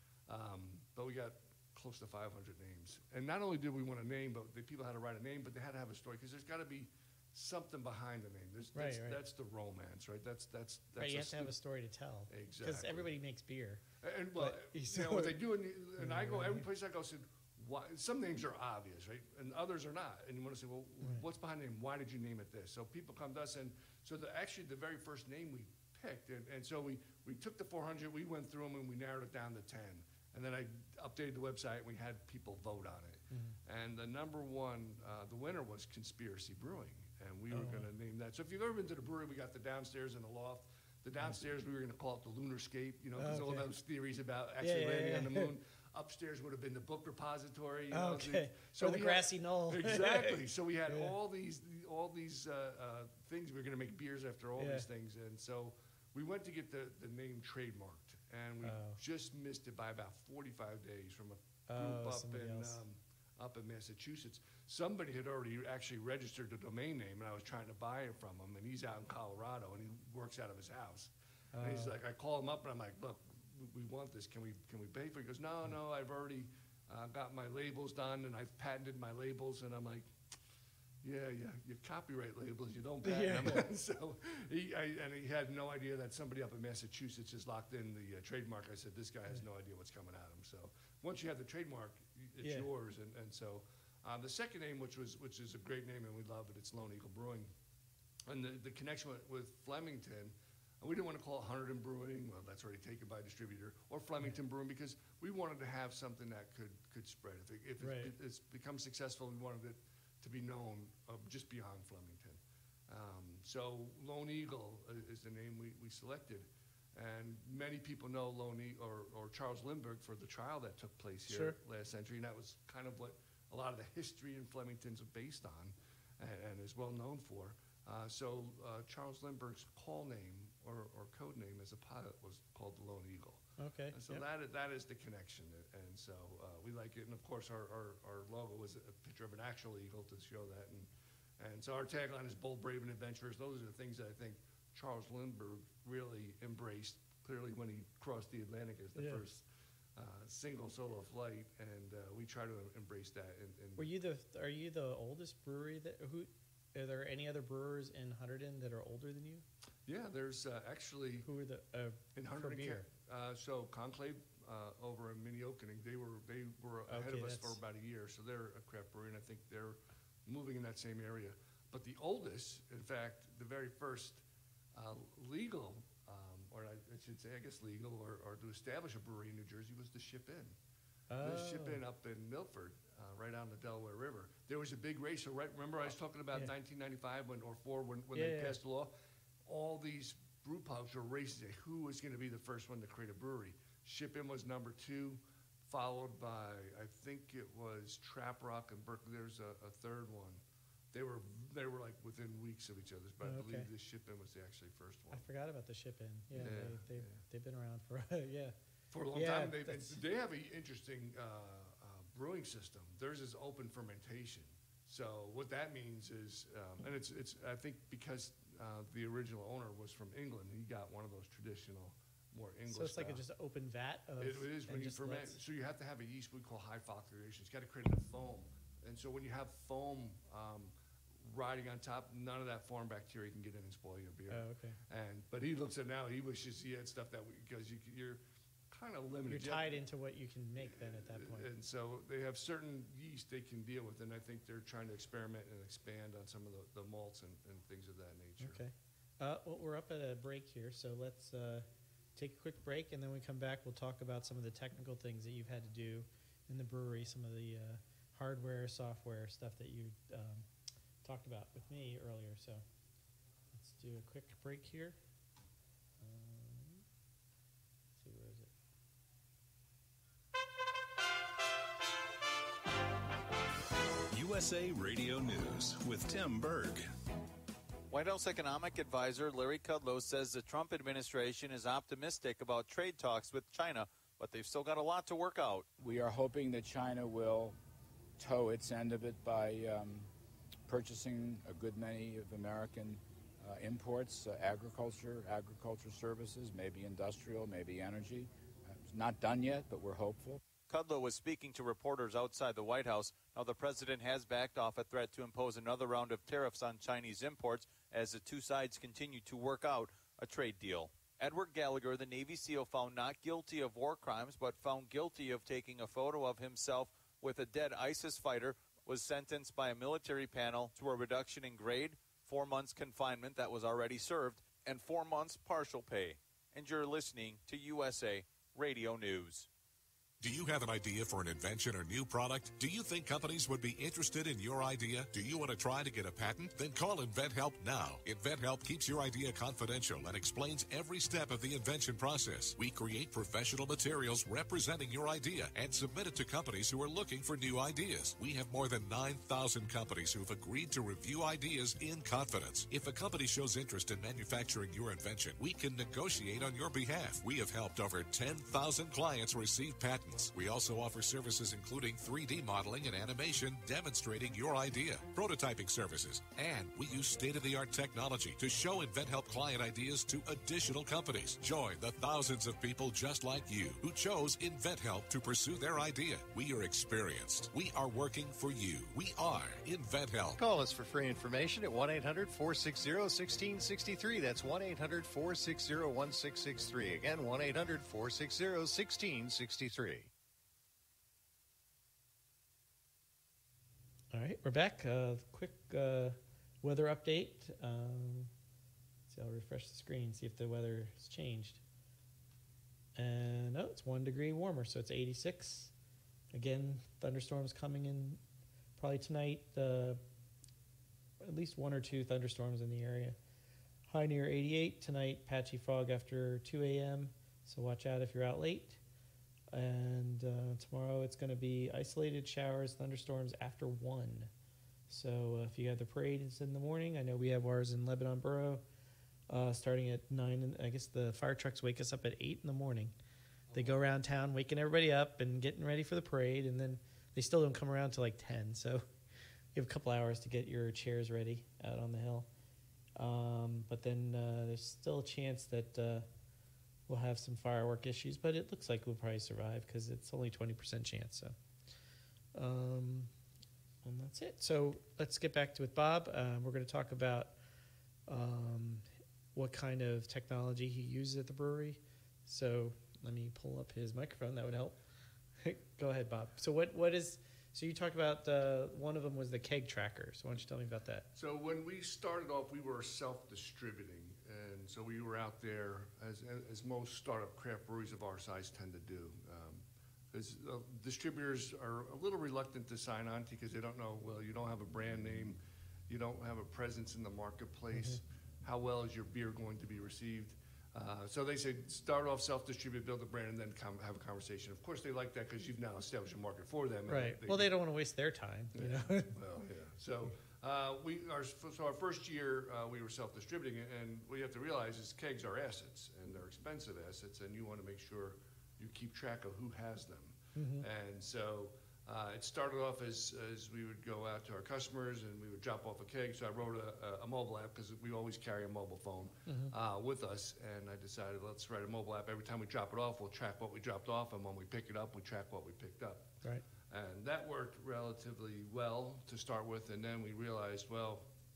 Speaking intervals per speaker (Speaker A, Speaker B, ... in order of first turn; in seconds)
Speaker A: 0.3-11.5, 12.3-13.1, 14.0-80.1, 81.0-97.5, 98.3-149.4, 150.0-153.9, 159.9-161.3, 162.2-174.2, 174.7-180.6, 181.2-188.9, 189.5-205.3, 206.3-207.2, 208.9-223.2, 224.2-239.8, 240.6-248.6, 433.5-433.9, 471.1-497.5, 498.6-526.1, 526.7-531.0
Speaker B: 8.8-9.2, 11.0-13.8, 14.4-15.4, 16.0-16.6, 33.3-33.6, 37.5-37.9, 43.2-43.7, 44.6-45.5, 47.9-51.1, 54.6-54.9, 58.6-59.0, 61.7-62.8, 71.5-71.9, 83.0-83.6, 92.4-92.7, 107.8-108.1, 121.3-121.6, 133.6-134.2, 149.0-149.2, 153.8-159.4, 161.2-162.9, 166.9-167.6, 181.1-181.8, 188.1-188.6, 203.2-203.7, 205.1-208.6, 209.1-210.0, 222.7-225.4, 234.3-234.8, 239.3-241.5, 248.4-260.5, 261.0-262.6, 263.5-265.0, 266.0-266.8, 268.0-268.5, 394.1-398.3, 399.1-401.6, 402.9-405.7, 406.3-408.2, 408.8-410.0, 411.2-413.2, 413.9-418.8, 419.5-424.3, 424.9-428.6, 429.3-432.9, 433.5-438.9, 439.6-442.3, 443.0-446.1, 446.9-451.3, 452.3-453.1, 453.8-457.3, 458.1-464.8, 465.4-471.1, 487.7-488.0, 496.9-499.1, 510.4-510.7, 519.3-519.5
Speaker C: 274.1-276.9
Speaker D: 277.9-285.7, 300.6-329.5
Speaker E: 285.8-287.6, 288.2-290.1, 290.7-300.4
Speaker F: 330.2-380.4
Speaker G: 380.4-390.1